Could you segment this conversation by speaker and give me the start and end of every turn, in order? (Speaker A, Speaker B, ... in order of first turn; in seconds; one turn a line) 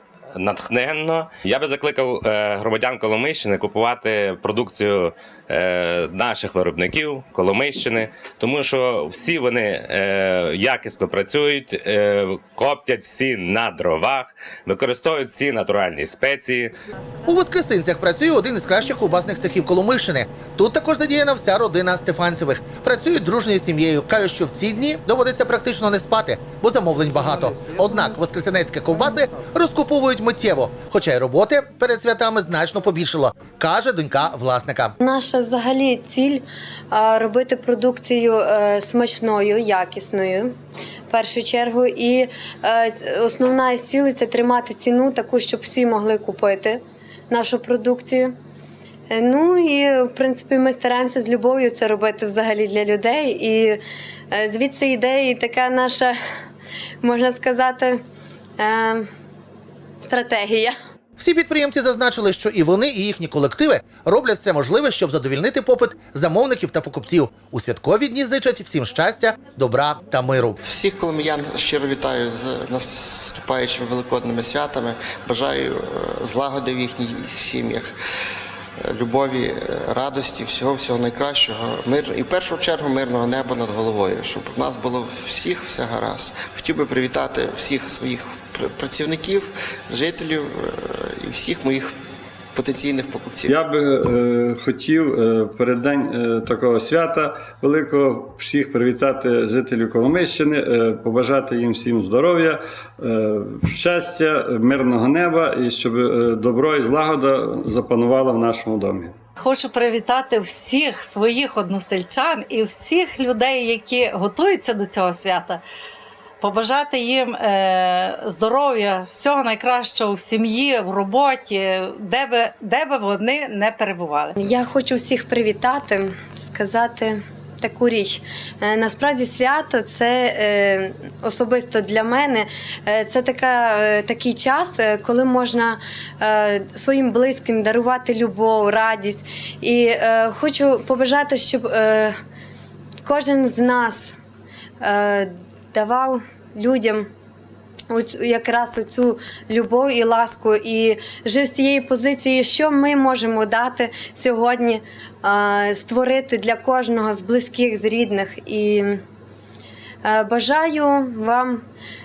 Speaker A: 0.3-16.7
Speaker B: 17.3-34.9
Speaker C: 35.0-40.5
Speaker C: 41.1-48.3
Speaker C: 49.1-53.8
Speaker C: 54.3-56.1
Speaker C: 57.0-58.0
Speaker C: 58.6-59.0
Speaker C: 60.0-60.7
Speaker B: 61.2-70.6
Speaker D: 70.6-77.9
Speaker D: 78.8-91.9
Speaker D: 92.5-93.5
Speaker E: 93.5-109.1
Speaker F: 109.4-115.6
Speaker F: 116.4-124.3
Speaker C: 124.4-142.1
Speaker C: 143.0-144.2
Speaker C: 144.8-147.1
Speaker C: 147.9-159.0
Speaker C: 160.0-161.6